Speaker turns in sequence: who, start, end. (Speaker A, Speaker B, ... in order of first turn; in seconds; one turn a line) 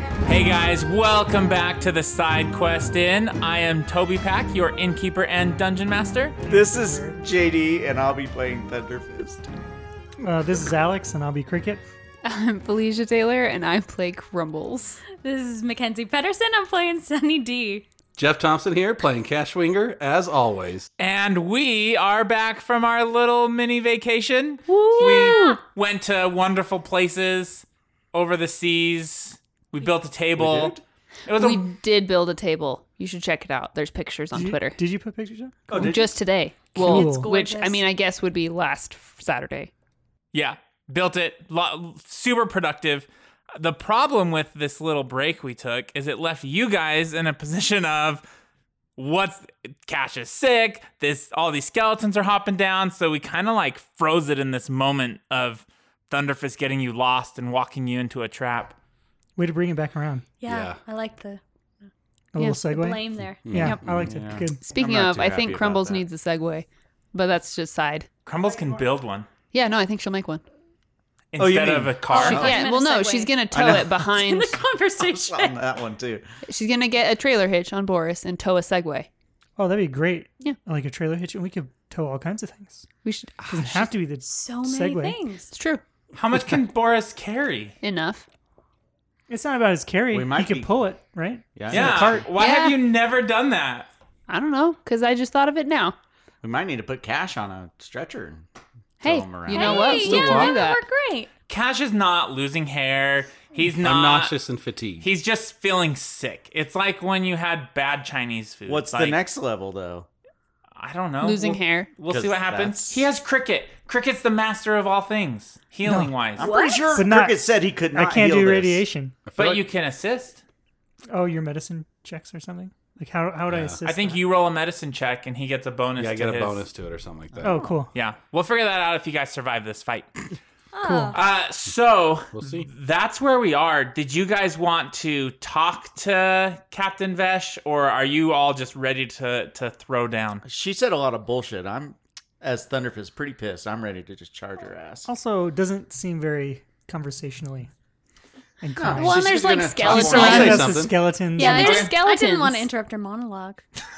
Speaker A: 0.2-6.4
Speaker B: 6.4-7.3
Speaker C: 6.5-9.5
Speaker B: 10.2-11.8
Speaker D: 12.2-15.0
Speaker E: 15.2-17.9
Speaker F: 18.2-20.9
Speaker A: 21.0-31.7
Speaker D: 24.7-25.6
Speaker E: 25.0-25.6
Speaker C: 30.4-30.7
Speaker F: 30.4-30.8
Speaker D: 31.3-34.8
Speaker B: 34.3-35.9
Speaker C: 35.7-36.2
Speaker D: 35.7-39.7
Speaker E: 36.8-37.8
Speaker B: 36.8-37.3
Speaker A: 40.3-48.2
Speaker A: 49.0-58.8
Speaker B: 59.4-60.3
Speaker E: 60.4-61.4
Speaker F: 60.5-60.8
Speaker B: 62.3-64.7
Speaker D: 62.4-62.7
Speaker E: 62.7-63.5
Speaker F: 63.4-64.3
Speaker D: 63.5-63.9
Speaker C: 63.9-66.1
Speaker D: 64.7-68.1
Speaker A: 68.3-69.3
Speaker D: 69.5-70.4
Speaker A: 71.3-72.6
Speaker C: 71.4-72.6
Speaker E: 72.1-73.4
Speaker D: 72.2-74.6
Speaker C: 73.5-74.1
Speaker E: 74.0-75.6
Speaker C: 75.0-76.2
Speaker D: 76.5-79.1
Speaker B: 79.6-82.9
Speaker D: 83.0-83.9
Speaker B: 83.5-85.2
Speaker E: 84.3-85.5
Speaker D: 85.5-85.8
Speaker A: 86.1-87.8
Speaker D: 87.8-88.2
Speaker B: 89.3-92.3
Speaker C: 90.1-90.7
Speaker C: 91.5-92.2
Speaker A: 91.7-93.9
Speaker D: 92.3-92.8
Speaker D: 94.3-96.0
Speaker C: 96.4-98.5
Speaker C: 99.0-100.3
Speaker D: 99.0-100.8
Speaker E: 99.5-101.3
Speaker F: 99.9-100.5
Speaker A: 101.5-104.4
Speaker F: 103.8-105.1
Speaker A: 105.0-109.2
Speaker C: 108.7-110.1
Speaker A: 110.8-116.6
Speaker D: 111.2-111.9
Speaker C: 112.1-113.1
Speaker B: 115.8-116.1
Speaker C: 116.3-118.8
Speaker E: 116.4-117.1
Speaker B: 116.9-119.2
Speaker F: 119.3-119.7
Speaker A: 119.3-120.4
Speaker B: 121.1-124.2
Speaker F: 123.5-123.8
Speaker A: 123.8-126.7
Speaker F: 126.0-127.6
Speaker B: 127.4-127.9
Speaker A: 127.9-130.1
Speaker E: 130.7-131.2
Speaker B: 130.8-131.2
Speaker A: 131.1-140.4
Speaker F: 132.3-132.7
Speaker C: 140.4-145.1
Speaker B: 145.1-147.7
Speaker B: 148.6-151.9
Speaker C: 148.8-150.9
Speaker D: 149.0-150.7
Speaker F: 149.8-151.0
Speaker E: 151.4-153.6
Speaker D: 151.4-152.7
Speaker C: 151.4-151.9